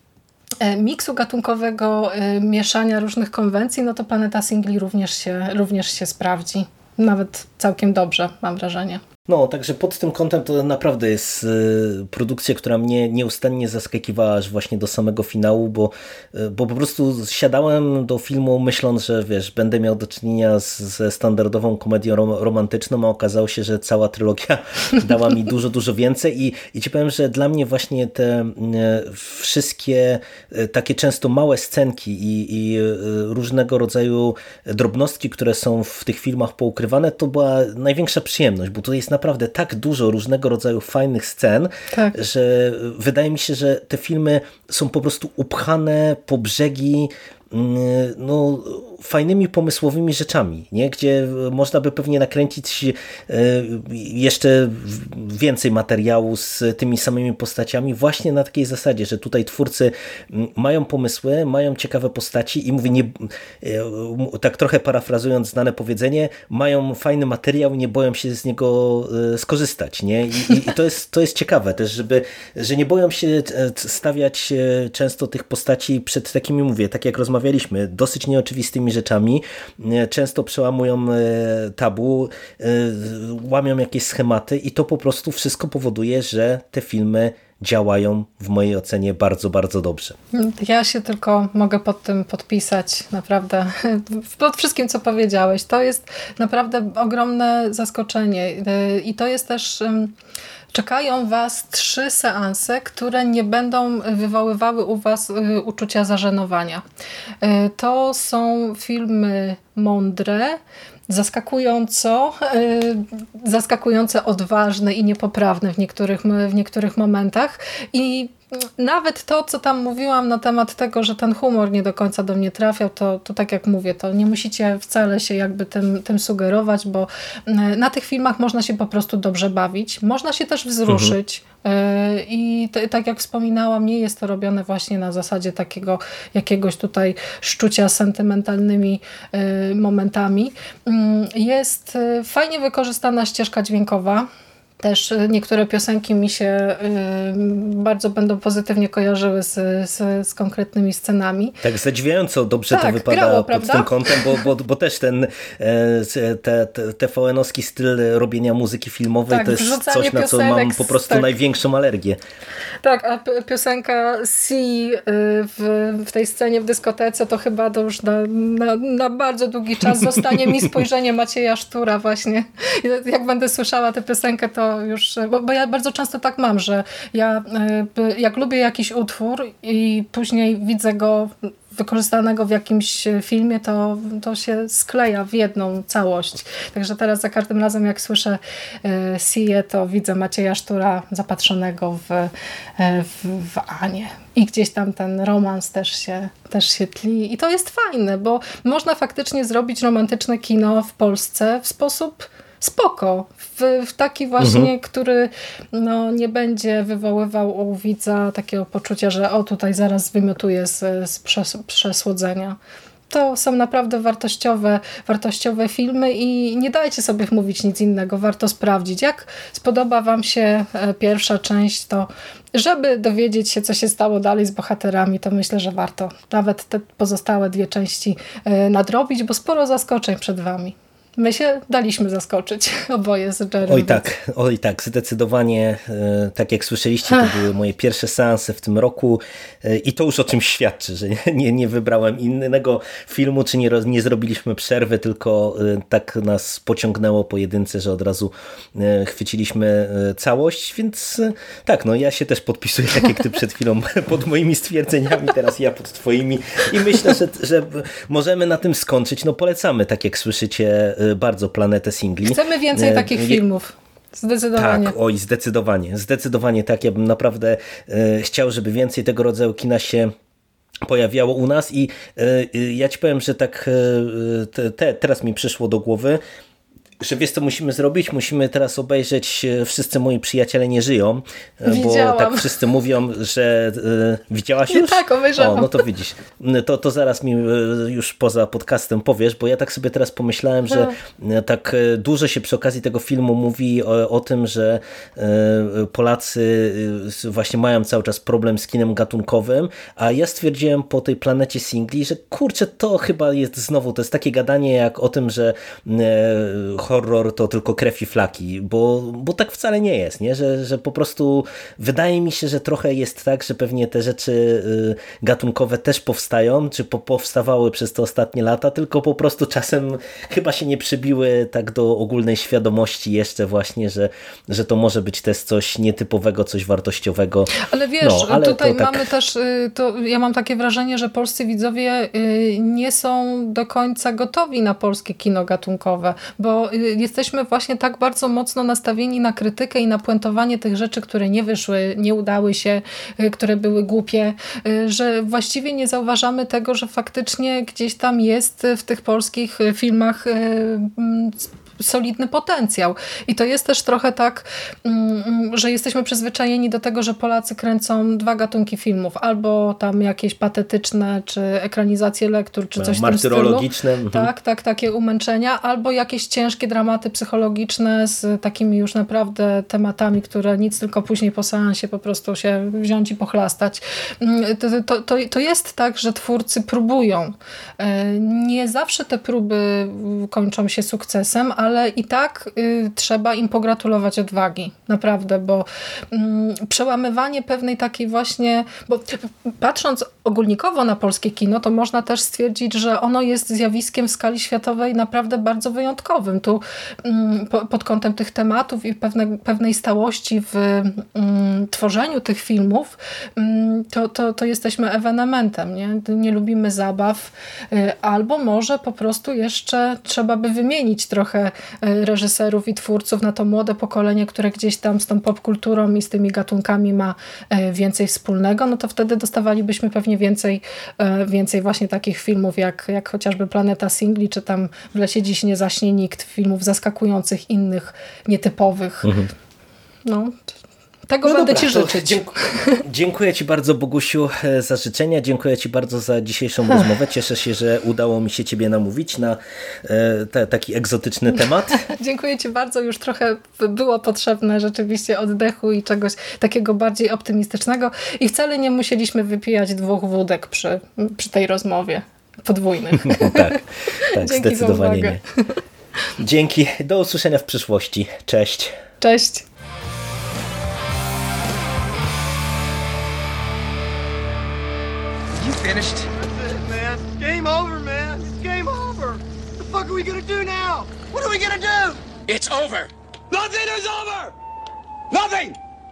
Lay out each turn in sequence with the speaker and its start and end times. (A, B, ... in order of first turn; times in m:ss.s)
0:00.6-0:09.0 A
0:09.3-1:30.2 B
0:41.9-0:42.2 A
1:30.3-1:40.1 A
1:40.7-1:46.8 A
1:47.4-2:24.3 A
2:10.9-2:11.1 B
2:24.8-2:31.6 A
2:31.6-2:42.2 B
2:32.7-2:34.4 A
2:39.3-2:41.3 A
2:42.8-3:32.6 A
2:50.0-2:50.4 B
3:24.4-3:24.7 B
3:33.1-3:54.1 A
3:53.7-4:23.4 B
4:22.2-4:24.9 A
4:24.6-4:30.1 B
4:30.8-4:36.2 B
4:37.0-5:29.1 B
4:41.6-4:42.6 A
4:44.7-4:45.8 A
5:27.6-7:09.2 A
6:02.8-6:04.3 B
7:09.0-7:09.3 B
7:10.0-7:10.5 A
7:11.1-7:12.8 A
7:11.2-7:21.8 B
7:21.8-7:35.5 A
7:33.0-7:35.2 B
7:36.2-7:38.8 B
7:39.0-7:39.5 A
7:45.3-7:54.3 C
7:55.1-7:55.6 C